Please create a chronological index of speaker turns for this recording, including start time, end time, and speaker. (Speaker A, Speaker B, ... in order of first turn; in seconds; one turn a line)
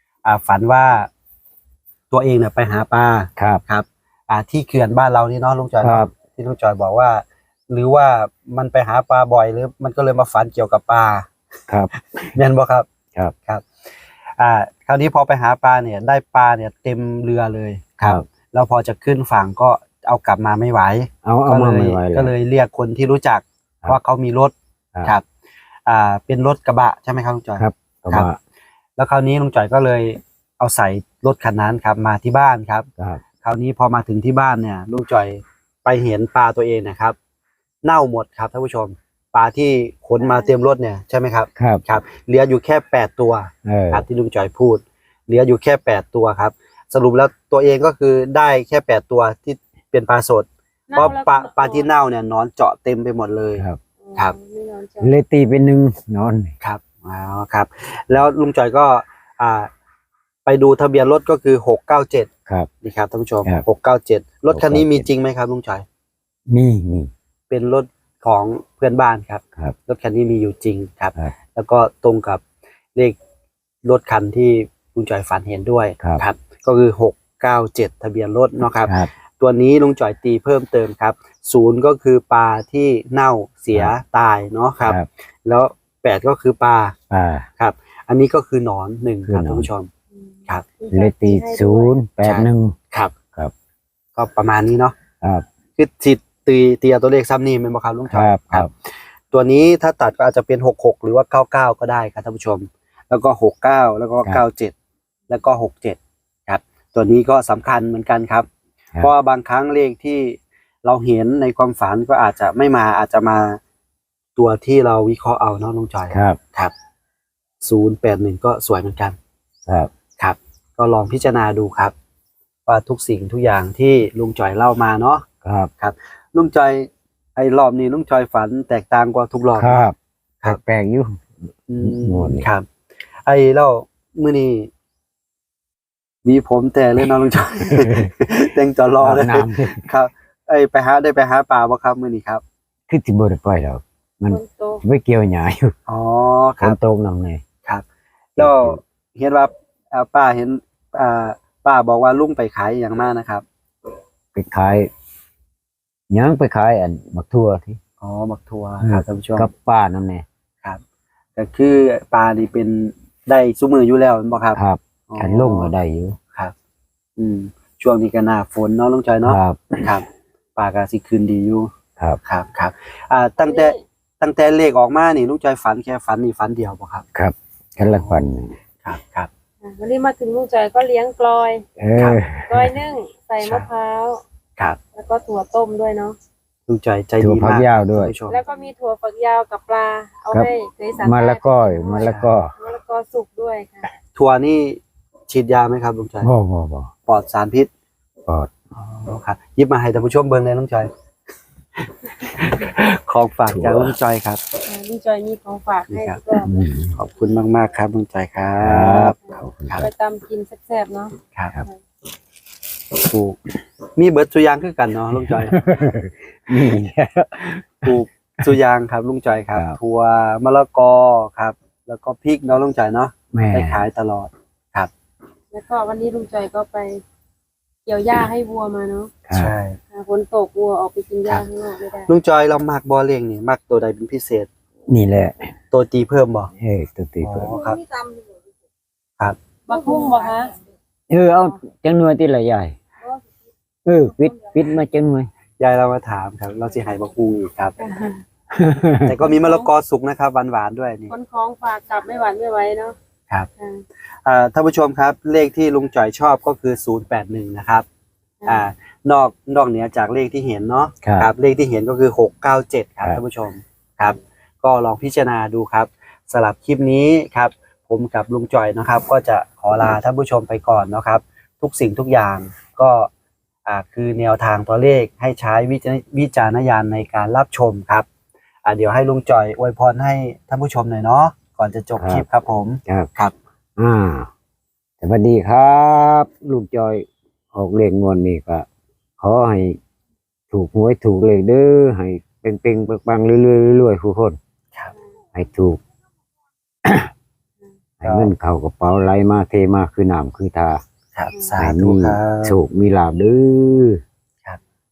Speaker A: 0.2-1.1
Speaker A: 2.1-11.3
Speaker B: 3.4-3.6
Speaker B: 5.8-6.1
Speaker B: 11.7-12.3
Speaker A: 12.3-12.9
Speaker A: 14.4-25.2
Speaker B: 21.2-22.3
Speaker A: 25.9-28.3
Speaker B: 27.6-28.4
Speaker A: 29.0-32.9
Speaker A: 33.4-37.1
Speaker A: 37.8-53.6
Speaker B: 41.5-41.8
Speaker B: 43.6-44.0
Speaker C: 50.9-51.9
Speaker C: 54.0-55.1
Speaker B: 55.0-56.5
Speaker A: 56.6-59.7
Speaker A: 60.5-62.3
Speaker A: 62.8-65.8
Speaker B: 64.5-65.1
Speaker B: 66.5-67.1
Speaker A: 67.5-72.4
Speaker A: 73.8-86.9
Speaker B: 78.8-79.1
Speaker B: 87.1-87.5
Speaker A: 87.6-89.9
Speaker B: 89.2-89.7
Speaker C: 90.2-91.9
Speaker B: 90.9-92.8
Speaker A: 92.2-93.1
Speaker A: 94.2-94.9
Speaker A: 95.8-104.7
Speaker B: 98.1-98.7
Speaker A: 105.3-108.5
Speaker A: 109.0-113.6
Speaker A: 114.3-116.7
Speaker B: 116.1-116.4
Speaker A: 117.6-119.2
Speaker A: 120.2-121.9
Speaker A: 122.7-125.2
Speaker B: 125.4-125.7
Speaker A: 125.8-129.9
Speaker B: 129.6-131.2
Speaker A: 131.7-132.7
Speaker B: 131.8-132.5
Speaker A: 133.2-134.7
Speaker A: 136.2-142.4
Speaker B: 137.8-138.1
Speaker B: 139.0-139.8
Speaker B: 142.9-145.7
Speaker C: 144.3-144.8
Speaker A: 145.9-146.8
Speaker B: 146.6-147.4
Speaker A: 148.3-153.4
Speaker B: 148.4-148.8
Speaker B: 154.3-154.9
Speaker B: 156.1-157.8
Speaker A: 158.0-159.5
Speaker B: 158.8-160.2
Speaker A: 161.4-165.7
Speaker B: 164.5-166.2
Speaker A: 167.2-171.7
Speaker B: 169.2-169.9
Speaker A: 172.2-177.0
Speaker C: 173.4-173.8
Speaker B: 177.1-178.6
Speaker A: 177.8-178.2
Speaker A: 178.8-179.3
Speaker C: 179.6-181.6
Speaker B: 181.8-182.8
Speaker C: 182.5-184.2
Speaker A: 183.4-183.7
Speaker C: 184.9-186.2
Speaker A: 186.7-188.4
Speaker B: 187.2-188.1
Speaker C: 188.3-193.9
Speaker B: 190.3-192.5
Speaker A: 192.0-192.3
Speaker A: 194.1-196.3
Speaker B: 196.2-196.9
Speaker A: 197.1-197.7
Speaker A: 198.8-200.9
Speaker A: 202.4-204.4
Speaker B: 203.5-203.9
Speaker C: 204.6-206.6
Speaker A: 205.9-206.2
Speaker B: 206.4-206.9
Speaker A: 206.9-209.9
Speaker B: 208.6-209.8
Speaker C: 209.1-211.8
Speaker A: 213.0-213.4
Speaker A: 213.9-215.6
Speaker B: 215.2-217.9
Speaker A: 217.8-224.9
Speaker B: 223.3-223.8
Speaker C: 225.5-227.0
Speaker C: 227.8-229.1
Speaker B: 229.3-229.5
Speaker A: 229.3-229.8
Speaker C: 229.9-232.1
Speaker A: 232.1-234.5
Speaker B: 234.9-235.5
Speaker A: 235.7-236.5
Speaker B: 236.6-237.6
Speaker A: 237.2-237.8
Speaker C: 239.7-240.5
Speaker B: 241.1-242.7
Speaker B: 243.8-245.3
Speaker C: 244.2-244.7
Speaker A: 245.6-247.8
Speaker C: 247.8-248.2
Speaker B: 248.5-249.1
Speaker A: 249.0-251.1
Speaker C: 249.2-249.7
Speaker C: 251.1-252.9
Speaker C: 253.6-253.8
Speaker A: 254.2-257.9
Speaker A: 258.4-273.1
Speaker B: 261.0-261.3
Speaker A: 273.6-278.1
Speaker A: 278.6-283.3
Speaker B: 282.0-282.2
Speaker B: 283.8-284.3
Speaker B: 285.0-288.6
Speaker B: 289.2-289.8
Speaker B: 290.5-294.4
Speaker B: 295.3-295.8
Speaker B: 296.8-297.1
Speaker B: 298.0-300.8
Speaker A: 298.0-298.3
Speaker A: 301.1-302.6
Speaker B: 301.6-304.0